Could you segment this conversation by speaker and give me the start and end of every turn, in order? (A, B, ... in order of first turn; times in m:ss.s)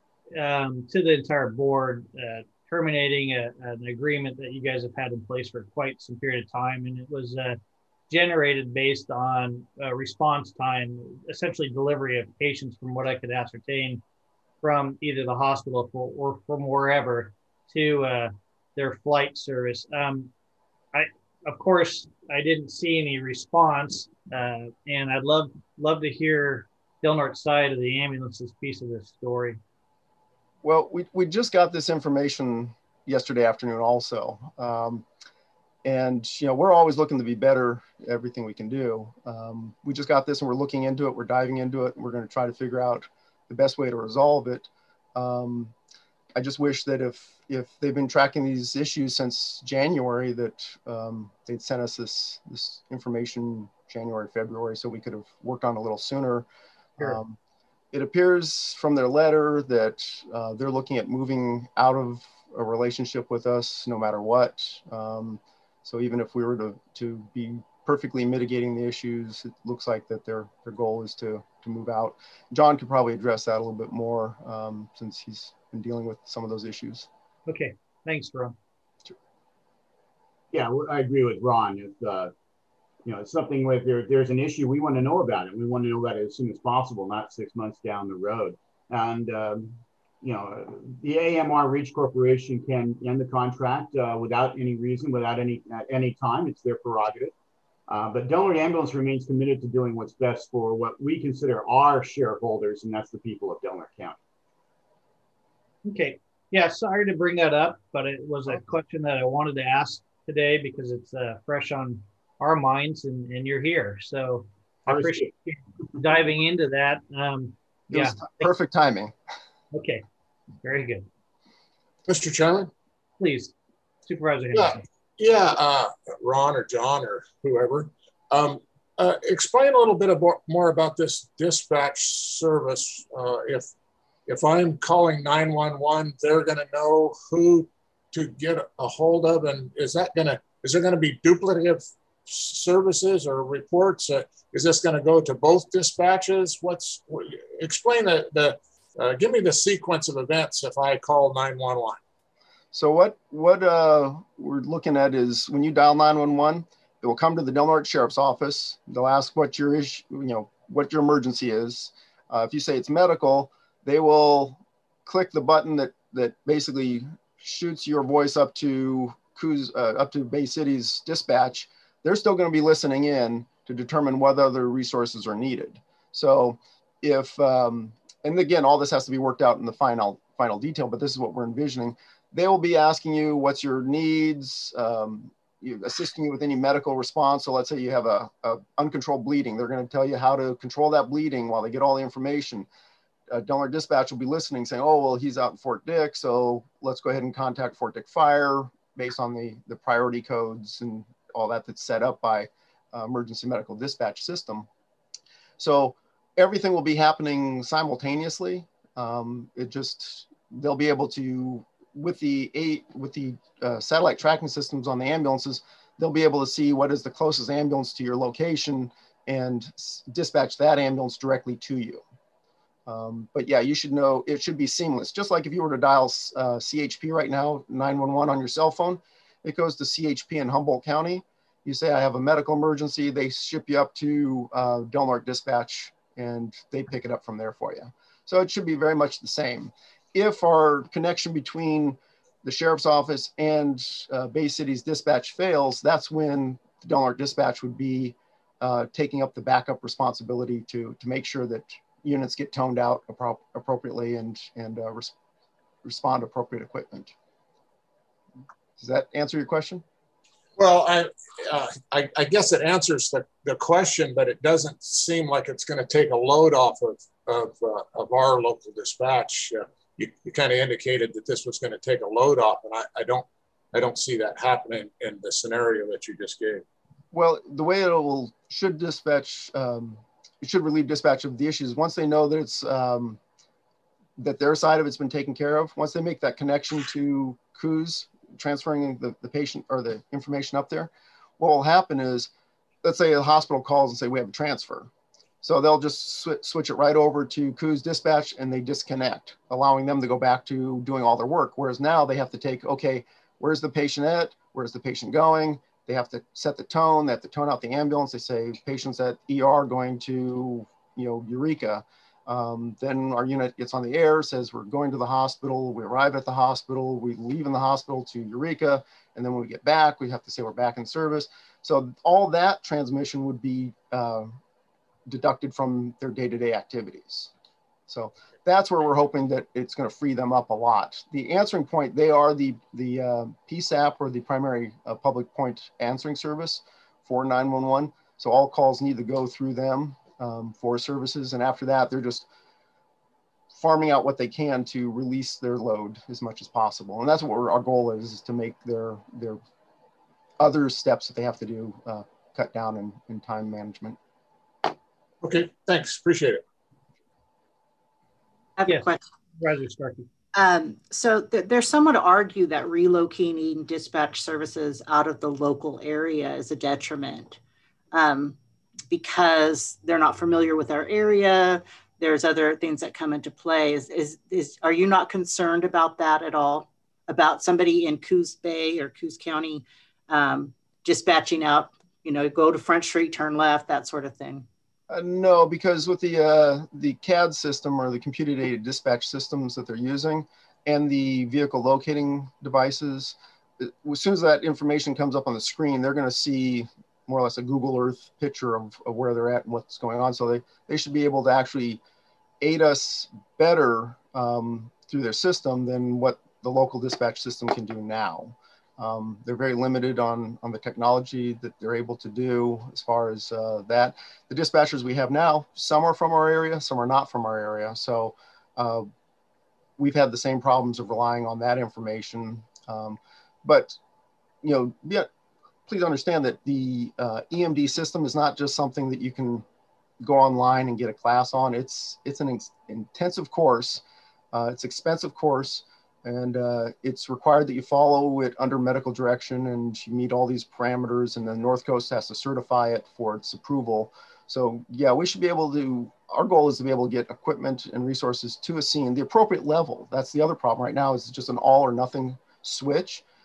0:00.4-0:07.6 A
0:08.1-0:14.0 A
0:14.6-0:20.3 A
0:20.9-0:29.6 A
0:30.6-0:35.0 B
0:35.8-0:45.7 B
0:46.4-0:56.5 B
0:57.0-0:57.4 B
0:57.9-1:17.1 B
1:17.5-1:18.6 A
1:20.5-1:22.3 C
1:23.0-1:37.3 C
1:37.9-1:44.2 C
1:45.8-1:58.5 A
1:54.9-1:55.3 C
1:57.9-1:59.1 B
1:59.7-2:00.0 A
2:00.6-2:01.1 A
2:02.1-2:02.7 D
2:03.2-2:03.5 A
2:04.1-2:04.8 A
2:04.5-2:13.7 D
2:14.3-2:32.0 D
2:32.7-3:12.7 B
3:13.3-3:24.7 B
3:25.6-3:42.0 B
3:42.9-4:15.1 B
4:15.8-4:17.1 B
4:18.8-4:19.8 B
4:20.6-4:36.6 D
4:37.1-4:43.2 B
4:44.2-4:52.3 B
4:52.8-4:54.9 B
4:55.4-5:24.3 B
5:25.1-5:27.3 B
5:27.9-5:42.3 B
5:43.5-5:49.4 B
5:50.4-5:54.0 B
5:55.2-5:56.4 D
5:58.6-5:59.0 E
5:59.4-6:00.0 A
6:00.4-6:07.4 E
6:07.9-6:08.4 E
6:08.9-6:24.5 E
6:24.9-6:41.8 B
6:42.4-6:58.9 B
6:59.8-7:03.8 B
7:04.4-7:05.1 B
7:05.7-7:09.4 B
7:10.0-7:33.0 B